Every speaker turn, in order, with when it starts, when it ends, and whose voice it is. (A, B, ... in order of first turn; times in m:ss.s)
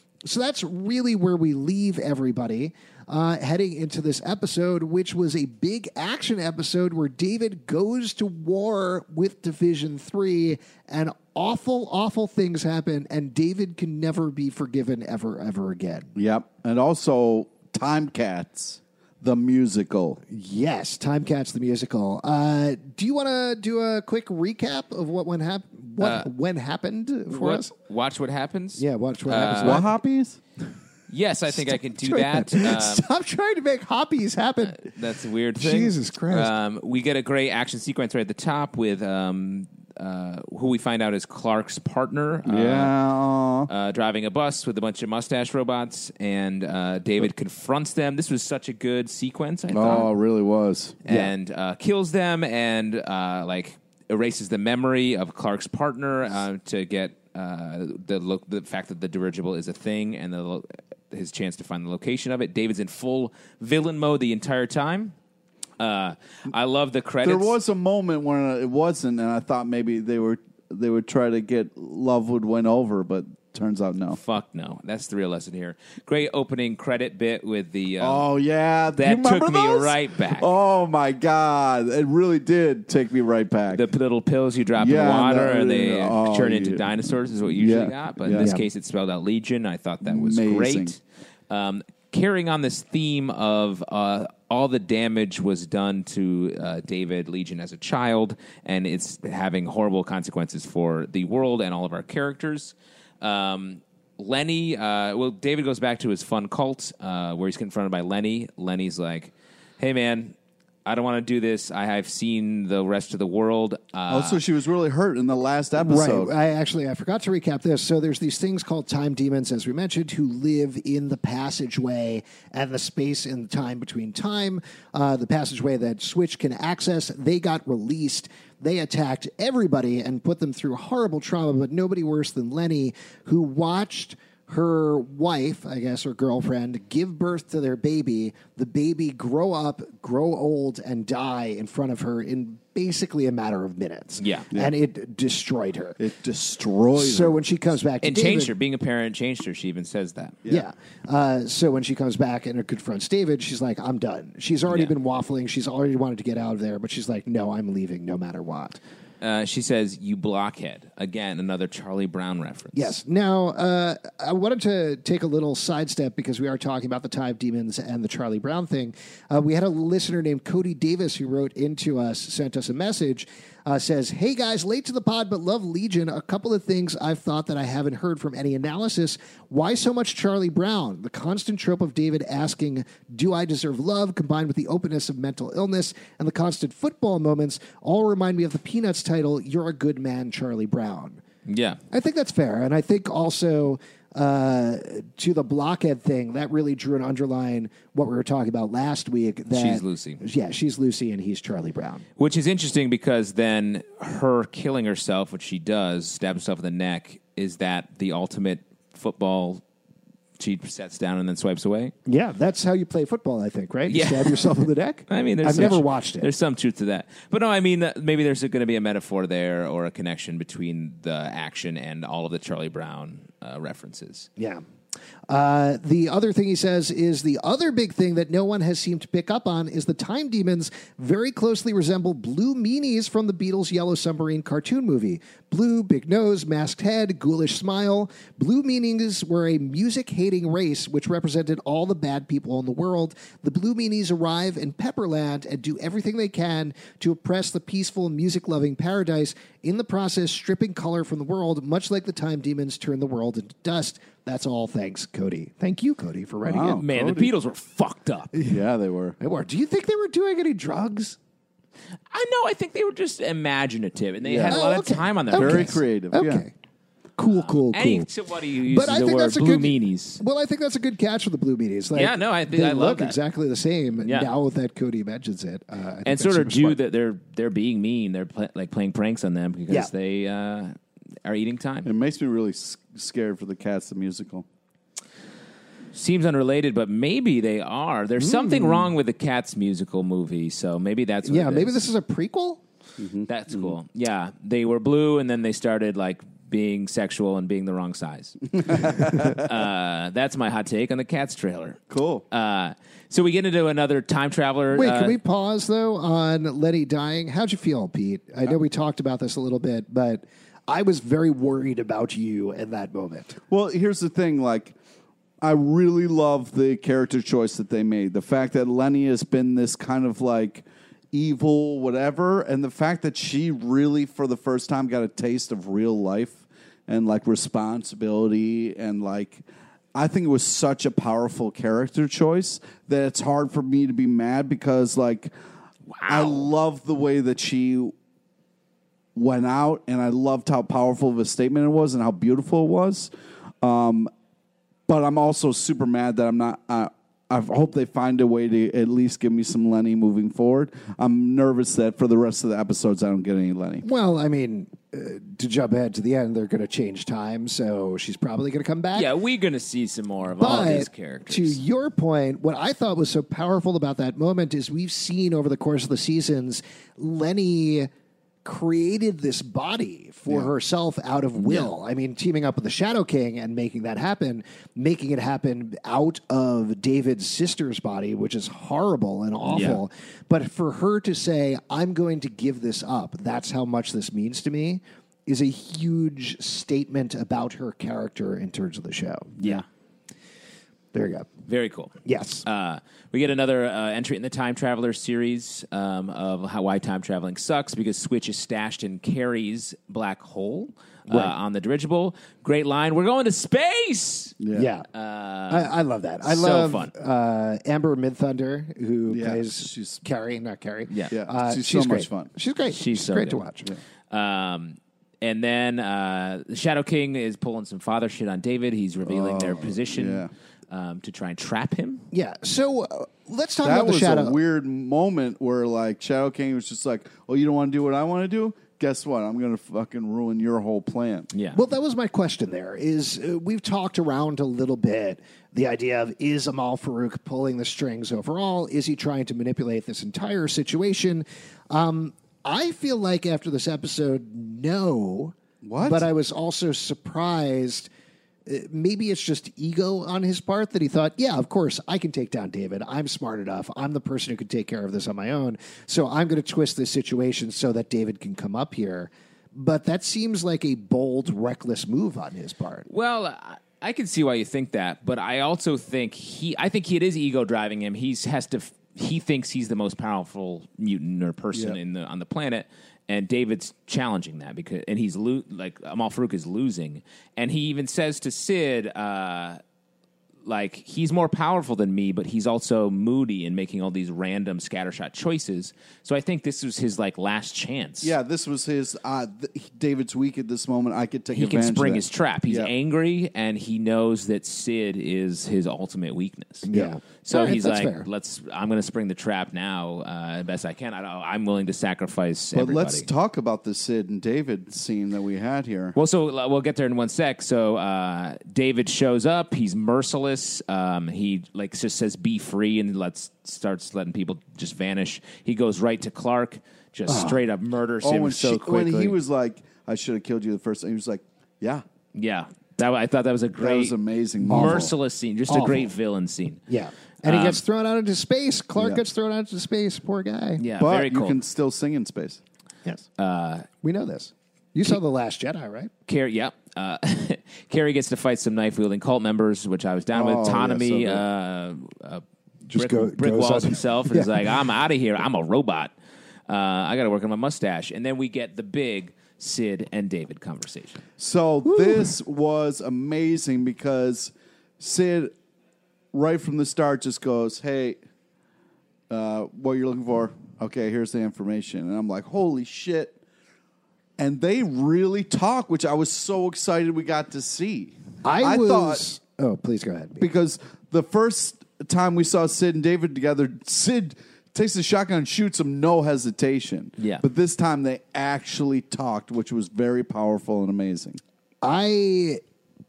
0:00.2-0:16.1 A
0:16.2-0:20.2 B
0:20.3-0:27.7 A
0:26.0-0:26.3 C
0:27.3-0:29.8 C
0:28.8-0:29.9 A
0:29.6-0:30.4 B
0:31.1-0:33.1 C
0:31.5-0:34.9 A
0:34.7-0:42.9 C
0:35.6-0:36.5 A
0:42.5-0:43.7 B
0:43.7-0:50.1 C
0:49.7-0:51.0 B
0:51.1-1:05.2 C
1:05.8-1:07.6 C
1:07.2-1:14.2 B
1:14.1-1:18.2 C
1:18.0-1:23.8 B
1:19.0-1:20.5 C
1:23.7-1:54.4 C
1:24.8-1:26.8 B
1:27.5-1:28.5 B
1:28.4-1:28.6 A
1:30.0-1:30.9 B
1:54.1-1:56.3 B
1:55.8-2:26.0 A
2:24.2-2:24.5 C
2:26.0-2:27.4 B
2:27.0-2:28.5 A
2:28.0-2:30.4 C
2:30.5-2:38.8 A
2:34.7-2:34.9 C
2:39.2-2:43.0 C
2:42.7-3:11.2 A
3:11.5-3:11.8 C
3:11.9-3:22.0 A
3:19.5-3:20.2 C
3:22.2-3:29.6 C
3:30.4-3:31.9 C
3:32.1-3:36.3 A
3:33.9-3:44.3 C
3:44.4-3:44.6 A
3:45.3-4:17.3 A
4:16.5-4:16.9 B
4:16.7-4:18.3 C
4:18.5-4:19.2 B
4:19.2-4:21.2 A
4:22.1-4:25.8 C
4:24.2-4:24.6 B
4:24.5-4:26.5 A
4:25.3-4:26.4 B
4:27.2-4:28.1 A
4:27.3-4:30.2 C
4:28.7-4:36.8 A
4:31.9-4:33.2 C
4:34.0-4:34.3 C
4:36.0-4:41.9 C
4:41.8-4:44.5 B
4:45.9-4:51.8 C
4:48.2-4:48.9 A
4:51.2-4:52.6 A
4:53.0-4:53.3 B
4:53.3-5:01.8 C
4:58.6-4:59.4 B
5:01.9-5:02.2 B
5:02.3-5:05.2 C
5:04.7-5:13.4 A
5:13.5-5:14.8 B
5:15.4-5:29.4 B
5:30.0-5:35.3 B
5:35.9-5:36.5 C
5:36.1-5:37.9 B
5:39.2-5:43.1 B
5:43.6-5:44.1 B
5:44.9-5:53.8 B
5:53.8-5:59.1 A
5:58.9-6:01.6 C
6:00.4-6:07.9 A
6:08.4-6:29.6 A
6:11.4-6:11.7 C
6:19.5-6:19.8 C
6:29.4-6:29.7 C
6:30.9-6:31.3 A
6:31.5-6:44.4 C
6:32.1-6:32.4 A
6:41.1-6:41.3 A
6:44.4-6:44.7 B
6:44.5-6:44.9 A
6:44.9-6:46.9 C
6:45.5-6:53.7 A
6:49.1-6:50.0 B
6:51.1-6:52.3 B
6:52.7-6:53.5 C
6:54.1-7:02.0 C
6:59.1-7:00.3 B
7:02.1-7:04.4 A
7:03.6-7:11.3 B
7:11.3-7:11.6 C
7:11.5-7:27.9 A
7:25.6-7:26.1 B
7:28.5-7:42.9 A
7:42.9-7:59.6 C
8:00.4-8:08.1 C
8:08.0-8:12.7 B
8:11.3-8:23.1 C
8:16.7-8:18.1 A
8:22.5-8:26.0 B
8:26.0-8:39.2 C
8:37.1-8:37.4 A
8:38.0-8:41.8 B
8:42.1-8:44.0 C
8:43.6-8:44.9 B
8:44.5-8:46.6 C
8:44.5-8:45.0 A
8:45.5-8:45.9 A
8:46.7-8:50.6 A
8:47.2-8:47.6 C
8:48.8-8:49.0 B
8:50.6-8:51.4 C
8:50.8-8:52.4 B
8:53.2-8:53.7 C
8:53.8-8:55.9 A
8:56.1-9:02.2 C
9:00.1-9:01.2 B
9:02.7-9:04.5 A
9:02.7-9:05.9 C
9:06.5-9:11.0 C
9:11.2-9:15.3 B
9:11.6-9:12.1 A
9:16.1-9:18.0 B
9:19.1-9:23.2 B
9:24.2-9:29.0 B
9:28.2-9:30.2 A
9:30.2-9:41.2 B
9:37.0-9:37.2 C
9:41.6-9:42.4 A